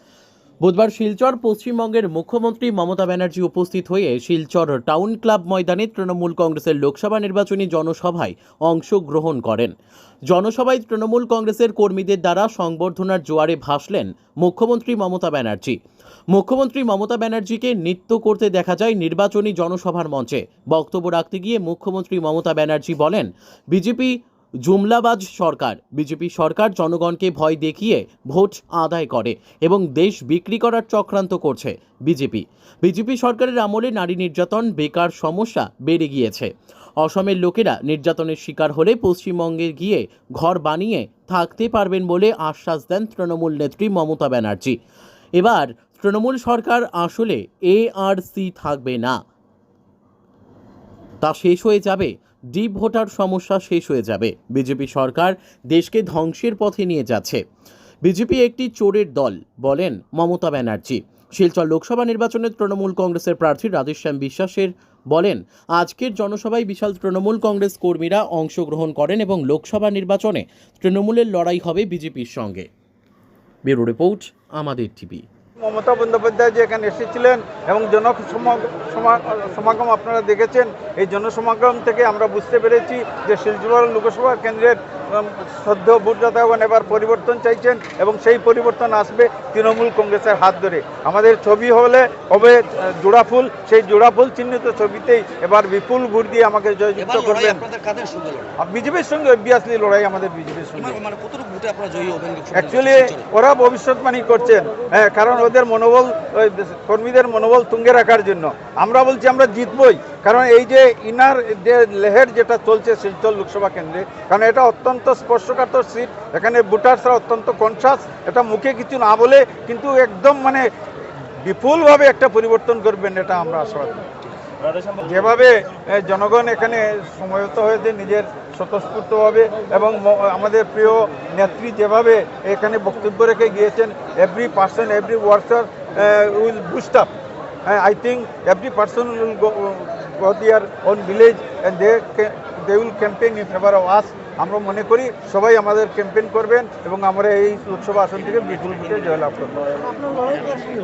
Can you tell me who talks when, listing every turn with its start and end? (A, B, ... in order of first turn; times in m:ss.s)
0:00.6-0:09.7 A
0:10.3-0:15.8 A
0:16.3-0:44.8 A
0:45.4-0:49.2 A
0:51.2-0:57.4 A
0:58.0-1:12.7 A
1:13.6-1:15.2 A
1:15.6-1:37.6 B
1:37.0-1:38.5 C
1:38.6-1:41.0 B
1:40.8-1:43.2 C
1:42.5-2:00.6 B
2:01.4-2:04.0 B
2:05.0-2:17.1 B
2:17.6-2:29.6 B
2:30.2-2:30.6 C